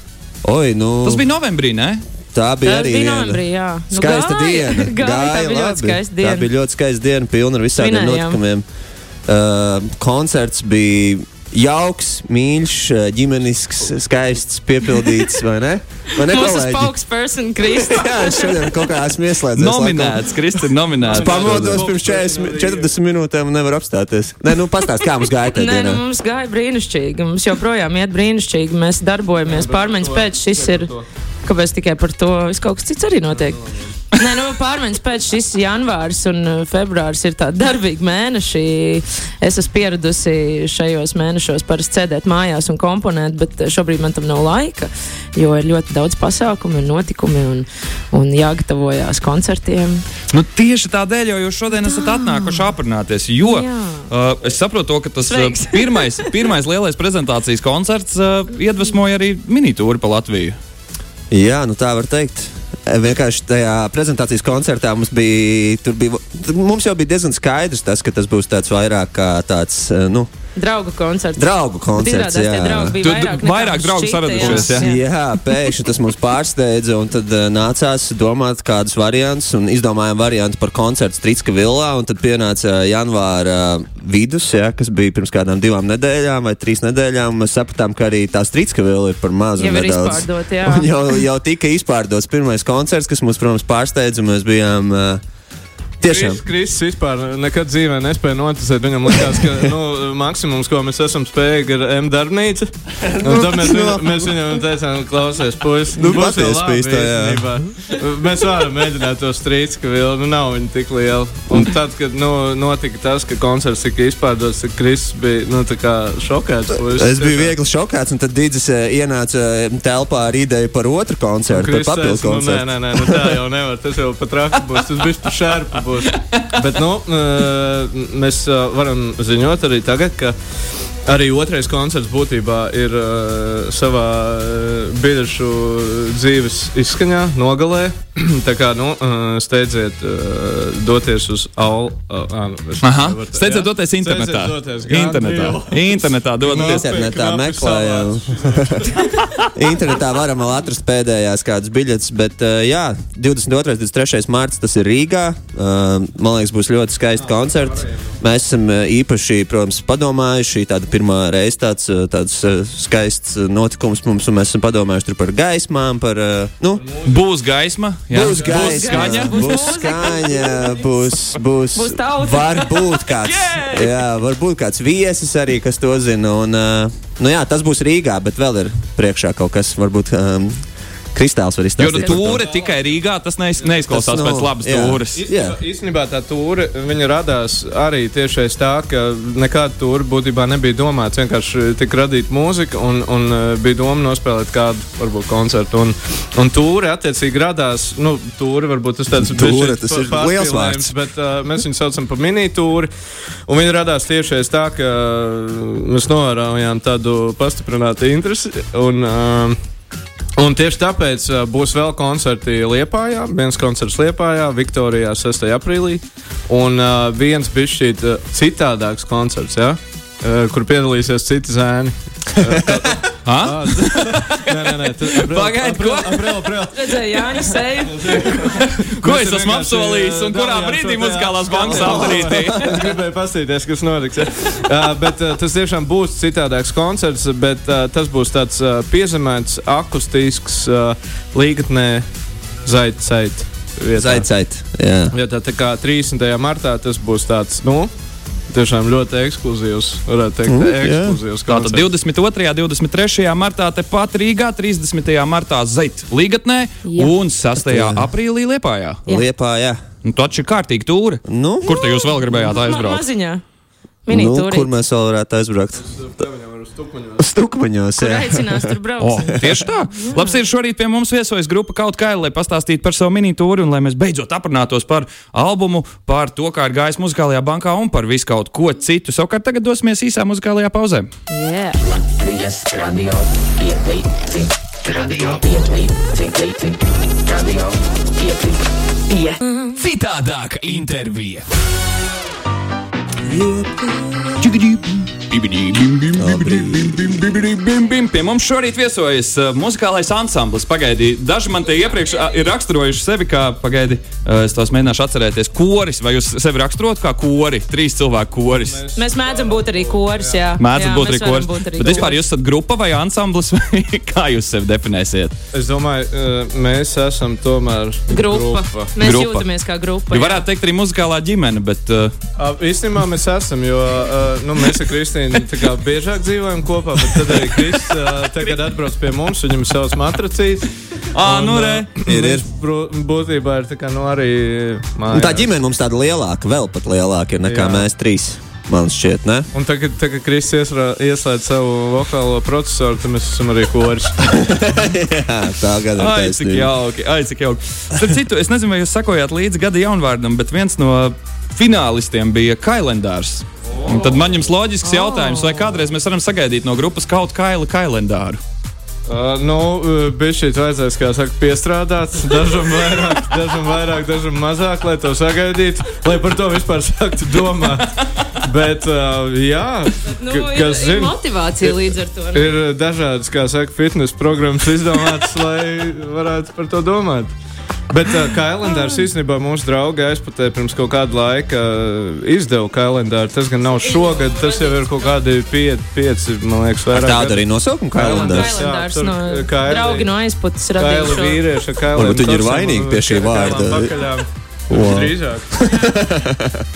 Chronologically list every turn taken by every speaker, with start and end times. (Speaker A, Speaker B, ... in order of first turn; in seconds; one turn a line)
Speaker A: 0.4-1.2
Speaker B: 1.0-2.0
Speaker A: 2.3-8.7
Speaker C: 2.6-6.5
Speaker C: 7.8-8.4
Speaker A: 9.3-16.9
Speaker C: 16.1-18.8
Speaker A: 17.6-20.3
Speaker B: 19.6-21.9
Speaker D: 21.0-22.9
Speaker A: 21.1-26.0
Speaker C: 25.5-30.9
Speaker D: 29.4-31.1
Speaker C: 31.4-33.6
Speaker D: 33.3-33.9
Speaker C: 34.1-50.0
Speaker B: 50.3-60.6
Speaker C: 51.8-52.6
Speaker C: 53.4-54.1
Speaker C: 55.2-56.3
Speaker A: 61.3-70.3
Speaker C: 70.6-75.5
Speaker A: 71.4-73.0
Speaker B: 73.0-74.9
Speaker A: 74.4-95.2
Speaker C: 89.6-90.9
Speaker A: 96.0-96.4
Speaker D: 96.0-117.5
Speaker A: 103.1-104.3
Speaker A: 105.9-107.5
Speaker A: 116.8-123.4
Speaker D: 121.5-130.4
Speaker D: 131.1-149.4
Speaker B: 142.8-146.9
Speaker A: 146.5-149.0
Speaker A: 149.5-166.8
Speaker D: 157.2-158.2
Speaker D: 166.8-167.2
Speaker B: 167.0-169.7
Speaker A: 168.1-180.6
Speaker C: 168.4-170.9
Speaker C: 171.8-172.9
Speaker B: 173.1-174.0
Speaker A: 181.1-182.4
Speaker B: 181.8-185.3
Speaker D: 182.3-183.0
Speaker D: 183.6-183.9
Speaker A: 183.9-185.6
Speaker D: 185.1-202.9
Speaker A: 199.1-200.9
Speaker D: 203.5-209.6
Speaker D: 210.4-242.1
Speaker B: 223.2-226.6
Speaker C: 226.7-228.3
Speaker B: 228.3-232.9
Speaker C: 231.7-232.5
Speaker D: 242.6-244.3
Speaker A: 243.9-245.2
Speaker D: 245.1-247.9
Speaker D: 248.5-251.9
Speaker A: 250.5-251.2
Speaker B: 251.5-259.0
Speaker C: 256.9-257.1
Speaker A: 257.6-258.1
Speaker A: 259.1-259.8
Speaker B: 260.0-263.0
Speaker A: 261.2-262.4
Speaker C: 262.3-263.4
Speaker C: 264.1-264.7
Speaker A: 264.1-265.8
Speaker D: 265.8-267.3
Speaker A: 267.2-268.8
Speaker C: 268.0-269.4
Speaker B: 269.0-281.1
Speaker A: 269.4-269.6
Speaker C: 270.0-270.4
Speaker C: 281.3-281.8
Speaker E: 281.8-289.4
Speaker C: 289.4-289.8
Speaker B: 289.8-291.5
Speaker A: 293.2-294.4
Speaker B: 294.4-308.8
Speaker A: 296.1-297.1
Speaker D: 308.6-310.6
Speaker C: 308.9-312.2
Speaker B: 310.6-315.3
Speaker D: 311.8-312.1
Speaker D: 315.5-318.9
Speaker C: 318.1-320.5
Speaker B: 319.0-319.5
Speaker B: 320.1-322.1
Speaker D: 322.4-335.5
Speaker B: 331.1-331.9
Speaker A: 332.1-332.4
Speaker A: 335.1-339.5
Speaker D: 337.5-337.9
Speaker D: 339.5-344.2
Speaker A: 344.3-346.7
Speaker B: 346.0-358.4
Speaker D: 353.7-354.2
Speaker C: 354.8-355.7
Speaker D: 359.1-377.3
Speaker C: 370.0-372.5
Speaker D: 377.9-387.4
Speaker C: 383.8-384.8
Speaker A: 386.9-388.6
Speaker D: 387.9-390.1
Speaker C: 388.0-391.4
Speaker D: 390.8-395.5
Speaker A: 391.9-394.0
Speaker A: 394.7-396.6
Speaker C: 395.6-396.0